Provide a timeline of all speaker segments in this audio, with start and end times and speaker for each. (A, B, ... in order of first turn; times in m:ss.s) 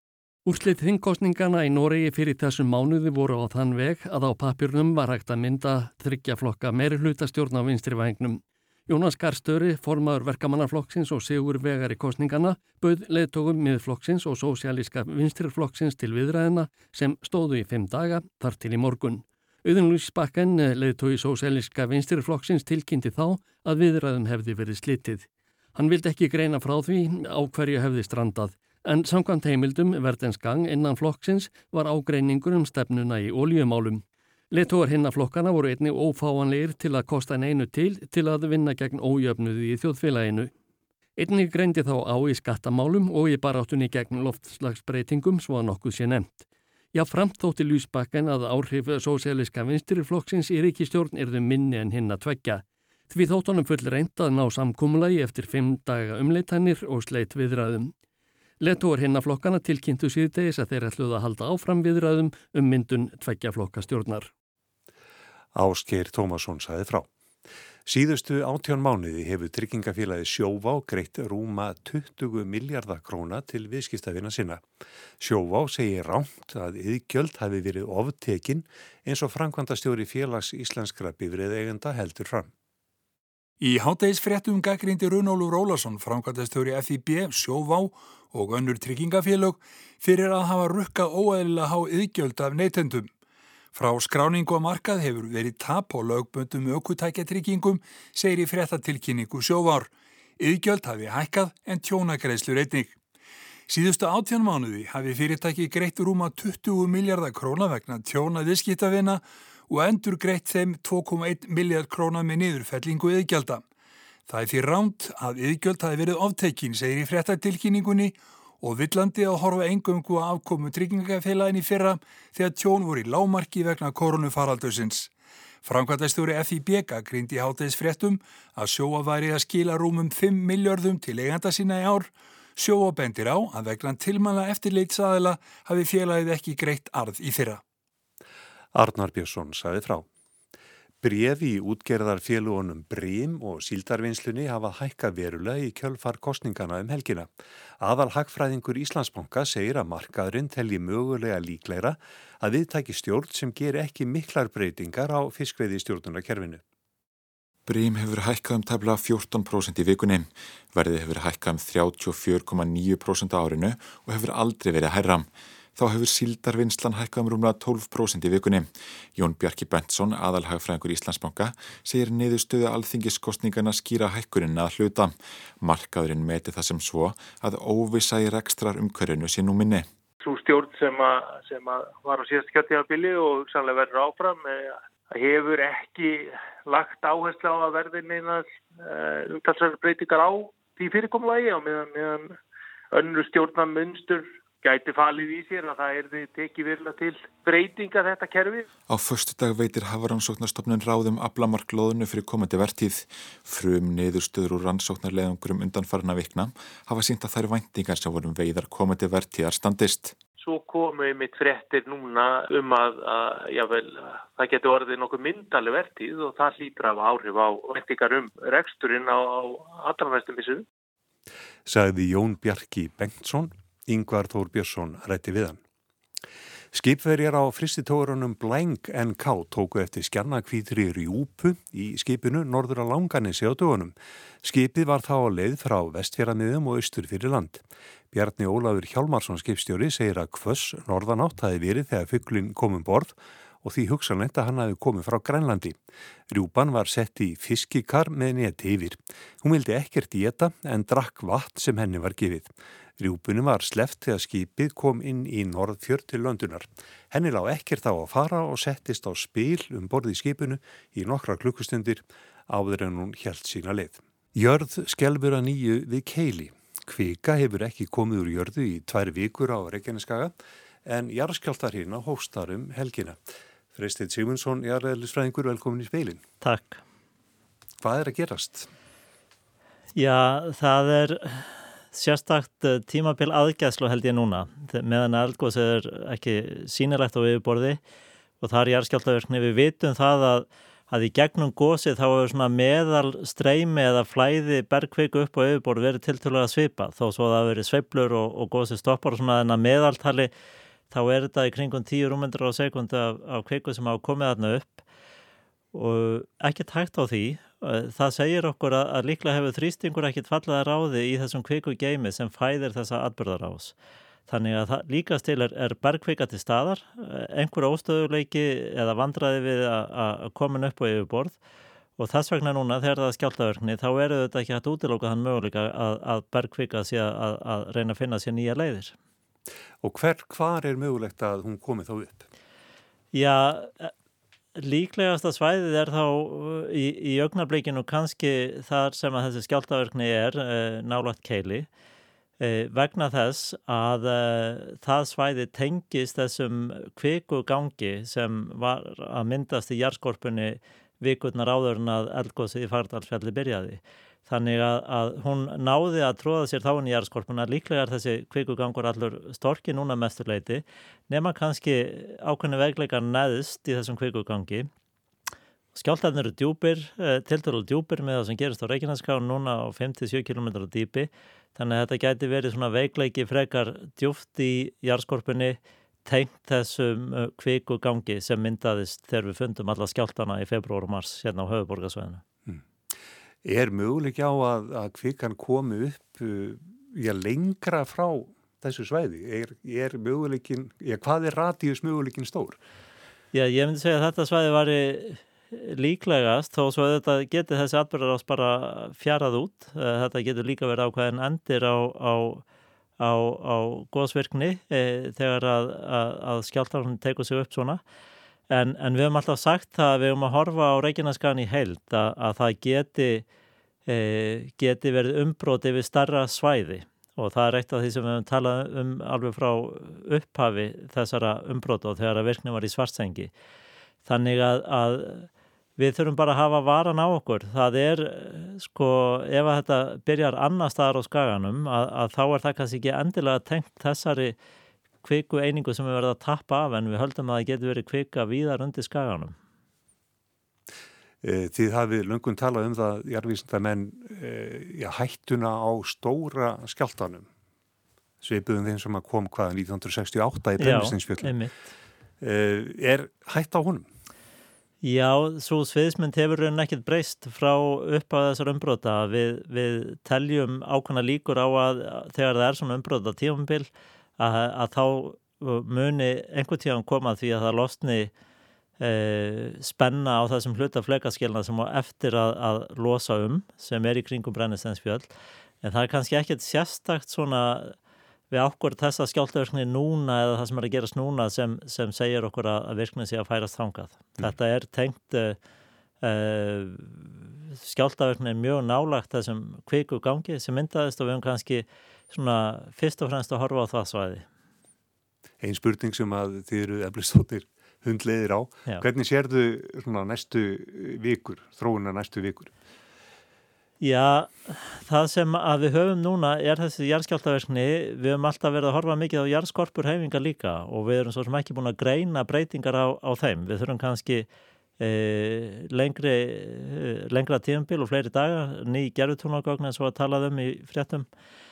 0:00.4-0:40.5 A
0:41.2-0:57.9 A
0:58.6-1:04.3 A
1:05.5-1:07.1 B
1:07.8-1:14.6 B
1:15.2-1:22.5 B
1:23.6-1:33.1 C
1:33.7-1:43.0 C
1:43.7-1:53.6 C
1:54.3-2:05.1 C
2:05.6-2:17.6 C
2:18.7-2:20.0 B
2:21.0-2:27.3 B
2:27.8-2:36.6 B
2:37.7-2:59.9 D
3:00.2-3:12.4 E
3:12.9-3:18.7 E
3:18.9-3:30.2 D
3:30.4-3:40.6 E
3:41.6-3:45.6 B
3:46.7-4:05.7 B
4:06.3-4:30.3 B
4:30.8-4:33.2 B
4:33.7-4:36.2 B
4:36.4-4:36.8 F
4:37.8-4:38.7 B
4:40.0-4:47.8 F
4:48.4-5:00.3 F
5:00.9-5:04.8 F
5:05.7-5:13.7 F
5:14.3-5:21.4 F
5:22.0-5:28.9 F
5:29.8-5:32.2 B
5:33.1-5:33.9 F
5:34.5-5:41.7 F
5:42.4-6:04.7 F
6:05.7-6:22.2 F
6:23.4-6:32.6 B
6:33.3-6:42.4 F
6:43.0-6:47.8 F
6:48.5-6:53.2 F
6:53.9-7:03.3 F
7:04.0-7:14.4 F
7:15.0-7:19.3 F
7:21.2-7:27.2 B
7:28.2-7:31.4 B
7:30.6-7:31.5 F
7:32.2-7:33.8 B
7:34.8-7:48.1 F
7:48.8-7:55.1 F
7:55.6-7:57.7 F
7:58.3-8:05.4 F
8:06.0-8:14.2 F
8:15.4-8:22.5 B
8:23.8-8:34.3 F
8:34.8-8:41.1 F